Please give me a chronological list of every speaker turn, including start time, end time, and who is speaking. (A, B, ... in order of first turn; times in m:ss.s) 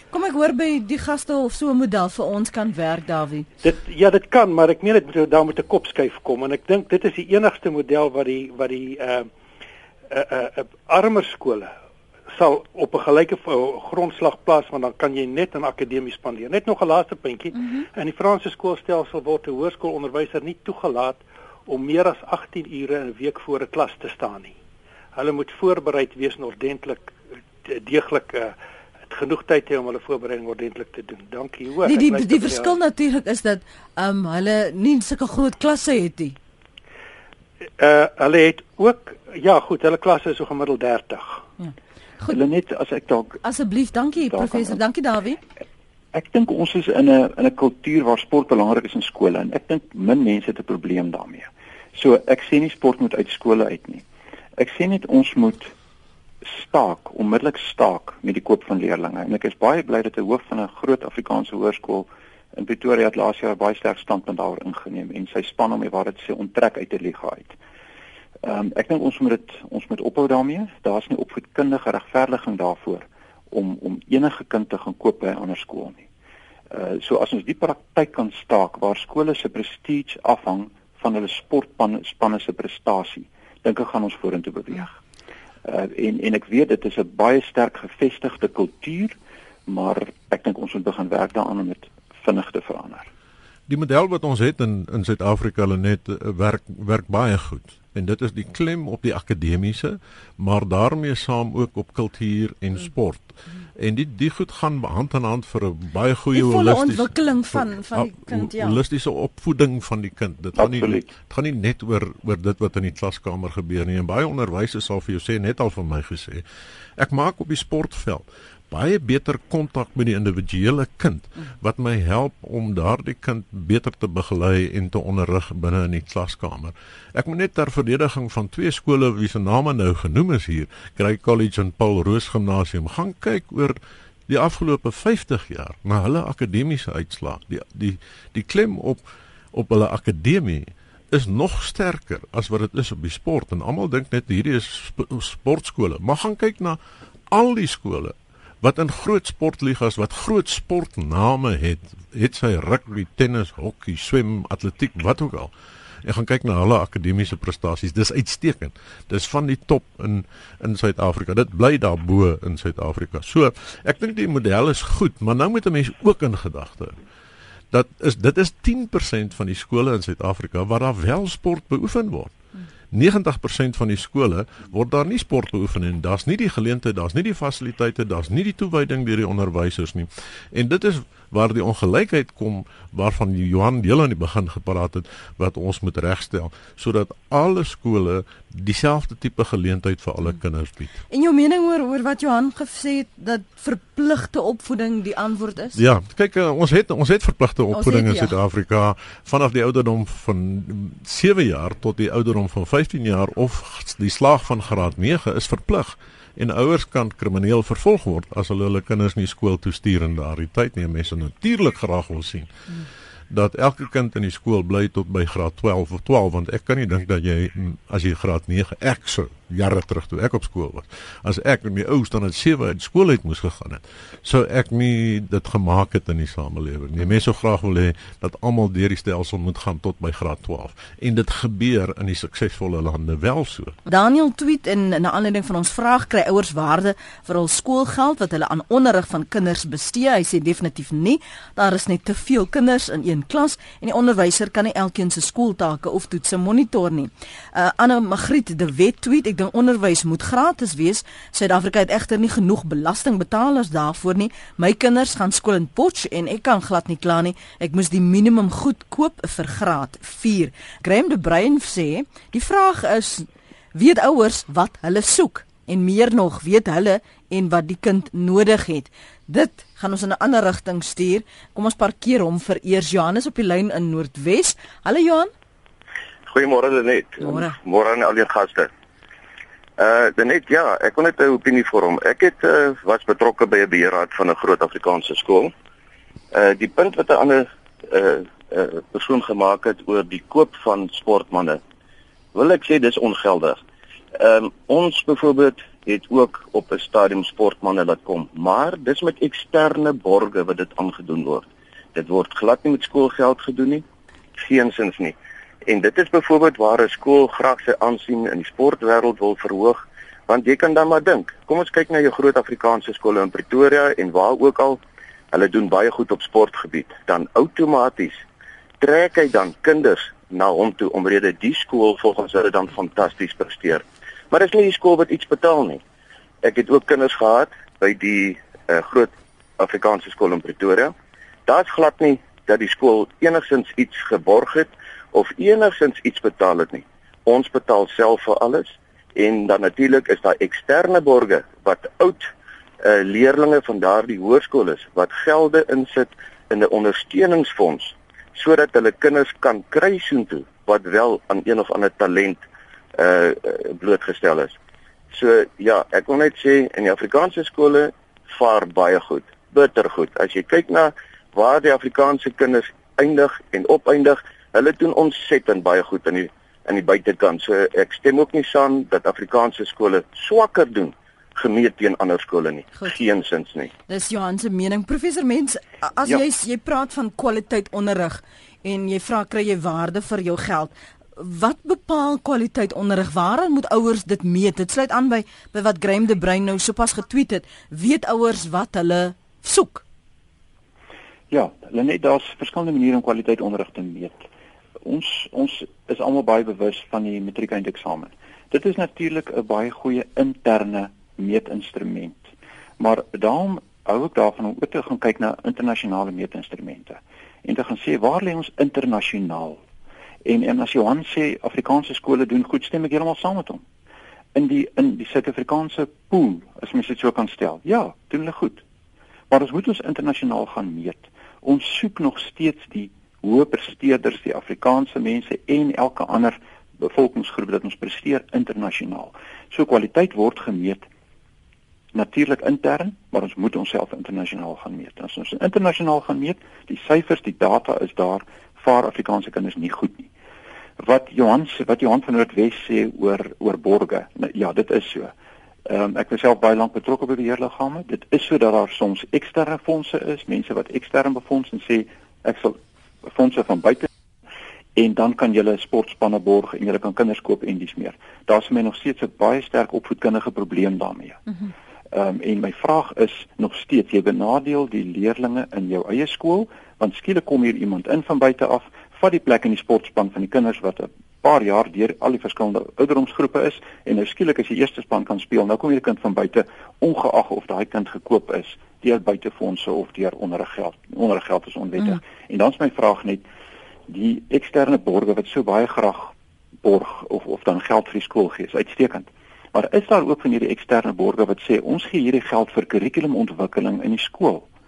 0:00.1-0:03.5 A
0:03.6-0:09.3 B
0:10.1-0:11.7 B
0:12.3-0:24.5 B
0:25.2-0:28.6 B
0:29.1-0:32.8 B
0:31.8-0:36.4 A
0:37.8-0:41.4 B
0:41.6-0:42.4 A
0:42.3-0:43.4 C
0:43.4-0:45.4 A
0:44.3-0:44.8 C
0:46.1-0:54.0 C
0:54.6-0:55.7 C
0:56.4-1:07.5 C
1:08.4-1:16.0 C
1:16.7-1:25.0 C
1:25.6-1:29.2 C
1:29.7-1:33.1 C
1:33.7-1:56.4 D
1:46.3-1:48.8 A
1:50.6-1:51.0 C
1:57.0-2:13.8 D
2:14.3-2:26.8 D
2:27.3-2:35.5 D
2:36.0-2:47.0 D
2:47.7-2:52.3 D
2:52.9-3:11.0 D
3:11.1-3:15.8 A
3:15.8-3:32.5 D
3:17.7-3:18.3 A
3:33.3-3:53.8 D
3:53.9-4:35.3 A
4:36.3-4:38.7 E
4:37.2-4:37.6 A
4:39.8-4:45.5 E
4:46.3-4:51.6 E
4:52.3-4:53.6 E
4:54.2-5:03.8 E
5:04.4-5:05.2 E
5:05.7-5:14.8 E
5:15.3-5:18.2 E
5:18.8-5:25.8 E
5:26.4-5:30.9 E
5:31.5-5:42.3 E
5:42.8-5:52.4 E
5:53.0-5:54.6 E
5:55.1-6:13.7 E
6:13.9-6:29.8 A
6:31.3-6:34.2 C
6:34.8-6:42.3 C
6:42.8-6:49.6 C
6:50.2-6:53.6 C
6:54.3-6:58.6 C
6:59.3-7:10.8 C
7:11.9-7:20.1 C
7:20.8-7:25.1 C
7:25.7-7:33.9 C
7:34.8-7:41.2 C
7:41.9-8:03.2 C
8:03.9-8:14.5 C